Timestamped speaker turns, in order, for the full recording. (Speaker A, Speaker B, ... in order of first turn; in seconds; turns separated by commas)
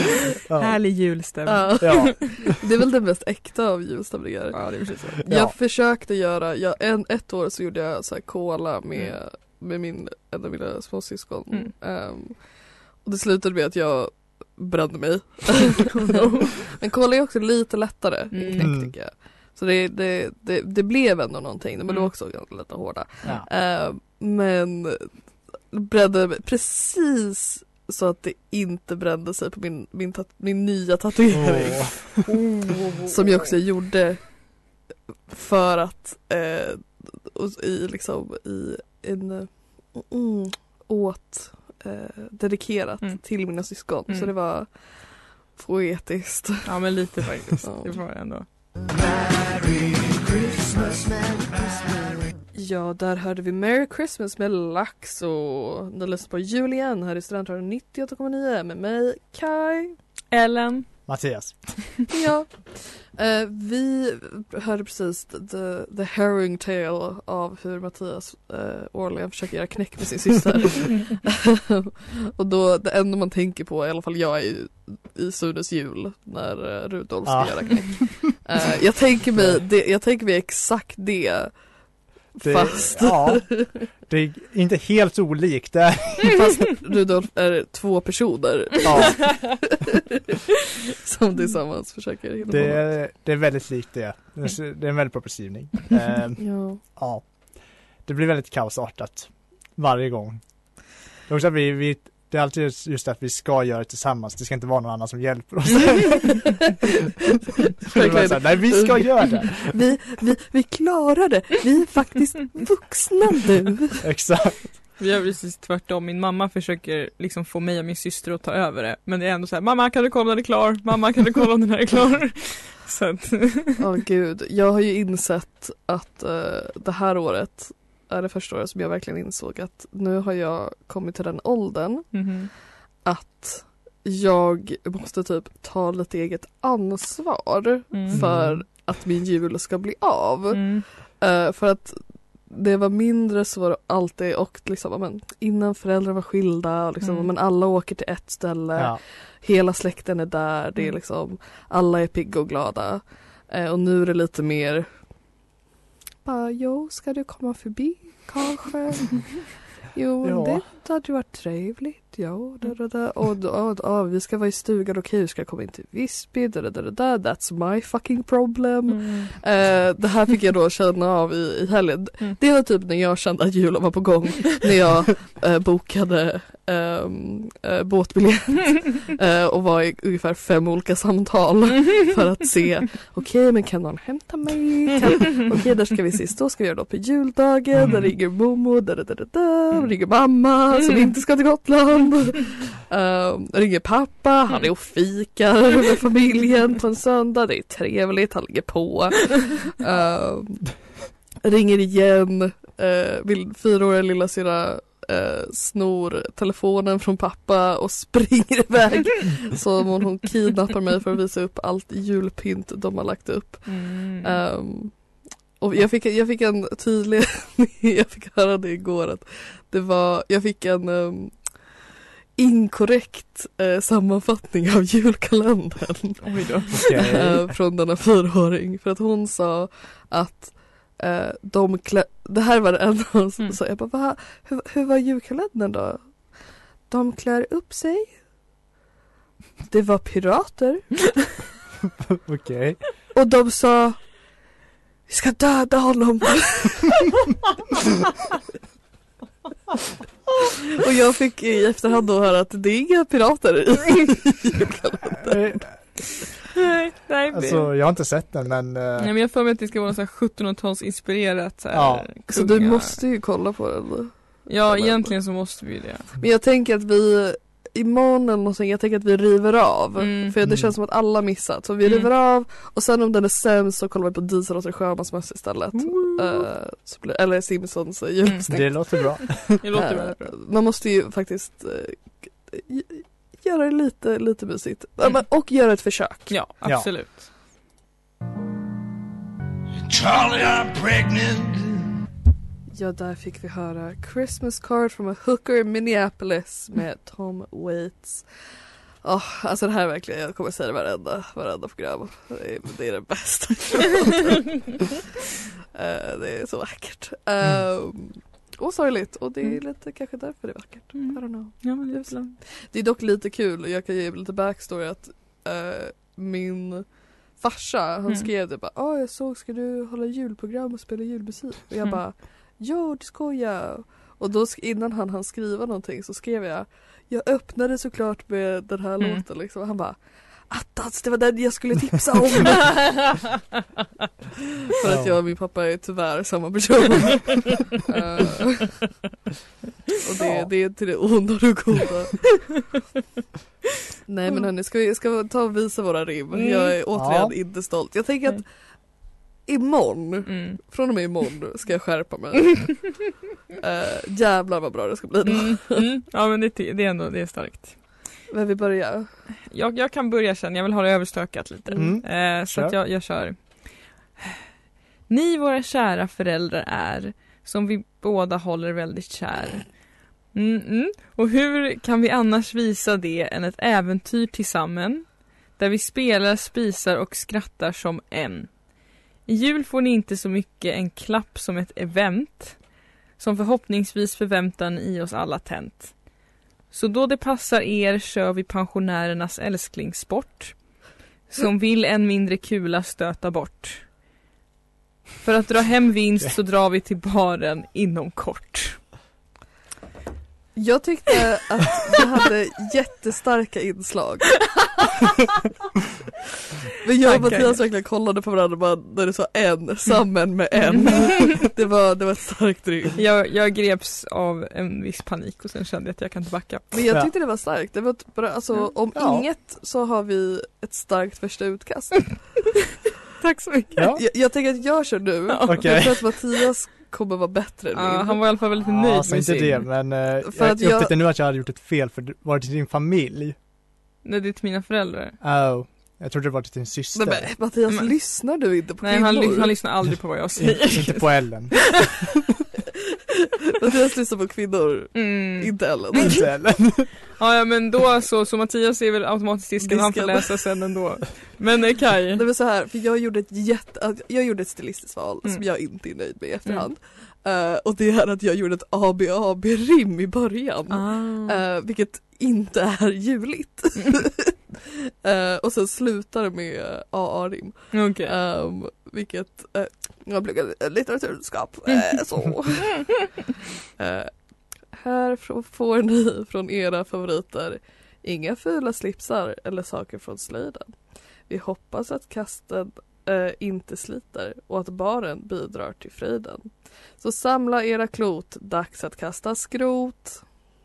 Speaker A: 0.5-0.8, Speaker B: 0.5-2.2, Speaker C: 1.4-32.3, Speaker A: 1.8-2.4, Speaker B: 4.5-5.1, Speaker A: 5.3-5.6, Speaker B: 15.9-16.4, Speaker B: 18.3-18.8, Speaker A: 18.6-18.9, Speaker A: 31.3-32.2, Speaker B: 32.3-33.4, Speaker C: 33.0-46.9, Speaker B: 43.0-44.3, Speaker B: 46.6-48.5, Speaker C: 47.6-48.0, Speaker D: 48.9-52.4, Speaker C: 52.5-60.0, Speaker B: 60.3-61.2, Speaker A: 61.1-62.0, Speaker C: 62.1-83.7, Speaker A: 77.2-78.2, Speaker A: 79.3-79.6, Speaker A: 82.4-86.6, Speaker C: 86.8-89.7, Speaker A: 88.8-89.7, Speaker C: 91.0-92.9, Speaker A: 92.5-106.8, Speaker C: 96.4-96.8, Speaker C: 107.8-114.0, Speaker A: 107.9-109.8, Speaker A: 114.0-114.7, Speaker B: 115.0-123.8, Speaker C: 123.8-132.4, Speaker B: 132.1-132.5, Speaker C: 133.0-155.1, Speaker B: 137.9-138.2, Speaker A: 138.1-138.6, Speaker B: 140.5-140.8, Speaker B: 147.0-147.3, Speaker C: 156.2-200.9, Speaker A: 160.2-160.6, Speaker B: 168.9-169.3, Speaker A: 187.8-188.1, Speaker C: 201.4-238.2, Speaker B: 213.7-214.4, Speaker B: 226.2-227.4, Speaker A: 226.7-227.4, Speaker C: 239.7-241.0, Speaker A: 242.2-242.8, Speaker C: 243.1-244.2, Speaker C: 245.1-247.0, Speaker C: 250.8-255.8, Speaker A: 255.2-255.8, Speaker B: 256.6-257.7, Speaker A: 257.3-259.1, Speaker B: 259.0-263.0, Speaker A: 261.7-262.1, Speaker C: 262.3-265.1, Speaker B: 264.5-266.1, Speaker C: 266.2-286.3, Speaker B: 270.0-270.3, Speaker A: 270.4-270.7, Speaker B: 271.8-272.1, Speaker B: 275.7-276.4, Speaker B: 278.2-280.4, Speaker A: 278.5-279.6, Speaker B: 286.3-287.2, Speaker A: 286.6-286.9, Speaker D: 289.9-291.9, Speaker C: 292.7-304.8, Speaker C: 305.7-333.0, Speaker B: 310.9-312.4, Speaker C: 334.7-338.9, Speaker A: 334.9-335.2, Speaker C: 340.0-342.4, Speaker A: 340.2-340.5, Speaker C: 344.1-348.7, Speaker B: 346.4-346.7, Speaker A: 346.9-347.4, Speaker C: 349.4-353.0, Speaker B: 350.3-350.6, Speaker C: 353.6-355.9, Speaker B: 355.3-358.2, Speaker C: 358.3-359.2, Speaker B: 359.5-364.4, Speaker A: 361.8-362.8, Speaker B: 365.1-393.9, Speaker B: 395.2-398.9, Speaker C: 400.6-404.5, Speaker C: 406.8-413.0, Speaker B: 407.0-407.7, Speaker B: 410.7-411.0, Speaker B: 413.0-416.8, Speaker C: 416.7-422.6, Speaker A: 418.9-419.3, Speaker B: 423.2-423.9, Speaker A: 423.8-424.0, Speaker C: 424.0-428.2, Speaker B: 425.3-425.9, Speaker A: 425.5-426.0, Speaker B: 427.7-429.7, Speaker A: 428.6-433.4, Speaker C: 430.2-431.0, Speaker B: 434.0-435.2, Speaker A: 435.2-437.4, Speaker C: 436.9-439.6, Speaker B: 437.7-441.8, Speaker A: 440.4-442.1, Speaker C: 443.6-446.2, Speaker B: 444.9-452.2, Speaker A: 445.9-446.9, Speaker C: 449.6-450.5, Speaker C: 452.1-473.1, Speaker B: 460.7-461.4, Speaker B: 467.7-468.2, Speaker C: 473.8-490.2